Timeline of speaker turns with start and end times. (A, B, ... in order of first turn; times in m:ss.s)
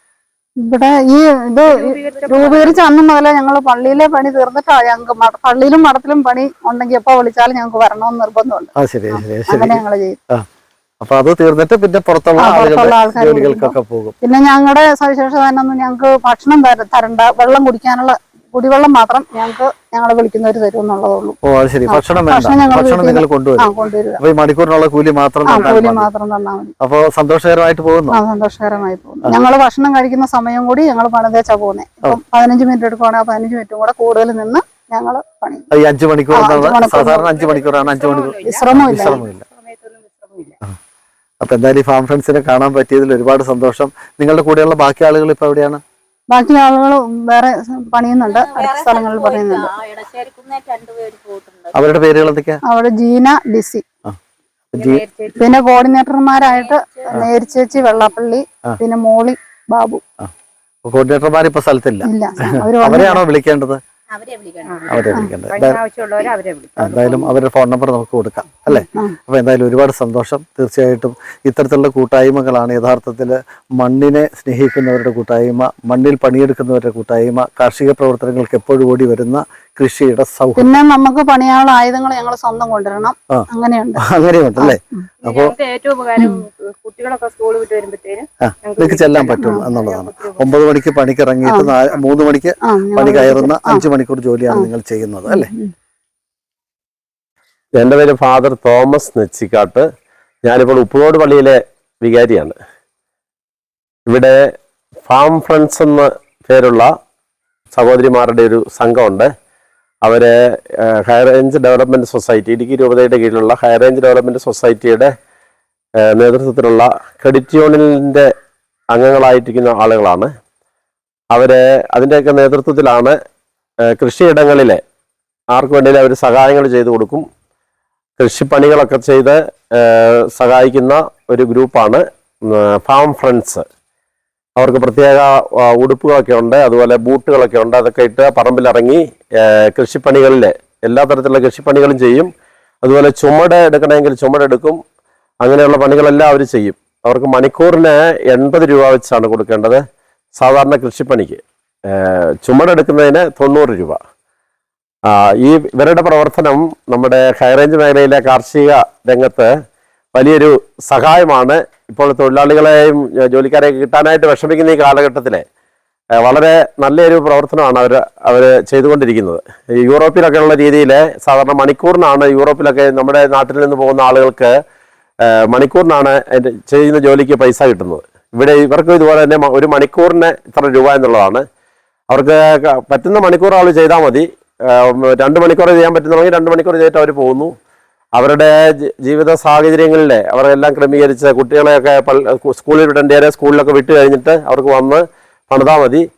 0:00.6-0:10.2 A
0:01.6-0:02.8 B
0:08.8-0:10.4 C
0:11.0-0:14.1 C
0:12.4-0:21.4 A
0:21.4-0:26.1 C
0:21.9-0:24.2 A
0:25.4-0:26.7 A
0:26.8-0:28.2 C
0:28.1-0:35.6 A
0:35.7-0:39.4 C
0:36.3-0:37.3 A
0:37.3-0:40.6 B
0:38.4-0:39.2 A
0:41.4-0:45.8 C
0:46.3-0:49.7 A
0:48.2-0:51.7 D
0:51.7-0:52.6 C
0:52.7-0:53.8 A
0:54.7-0:55.0 C
0:54.7-0:55.6 B
0:55.4-1:00.0 A
0:56.4-0:57.2 D
1:00.8-1:02.1 C
1:02.0-1:03.2 A
1:02.7-1:03.8 C
1:04.1-1:05.2 D
1:04.6-1:07.3 B
1:04.9-1:05.8 C
1:06.8-1:20.7 C
1:08.7-1:09.2 A
1:20.6-1:24.0 A
1:24.0-1:25.5 C
1:24.6-1:25.0 A
1:25.2-1:30.5 B
1:28.4-1:35.5 C
1:29.4-1:29.6 A
1:31.4-1:31.7 A
1:32.7-1:33.8 A
1:35.3-1:35.7 A
1:37.8-1:39.8 E
1:40.4-1:42.6 E
1:44.1-1:44.4 E
1:45.0-1:46.9 E
1:47.7-1:49.3 E
1:50.0-1:55.1 E
1:56.0-1:58.3 E
1:58.9-2:00.3 E
2:01.3-2:03.2 E
2:03.9-2:04.8 E
2:05.5-2:07.2 E
2:08.2-2:13.6 E
2:14.6-2:22.3 E
2:22.8-2:24.8 E
2:25.4-2:29.8 E
2:30.4-2:34.0 E
2:35.1-2:39.5 E
2:40.1-2:45.4 E
2:46.2-2:54.5 E
2:55.3-3:01.4 E
3:02.1-3:07.5 E
3:08.1-3:16.0 E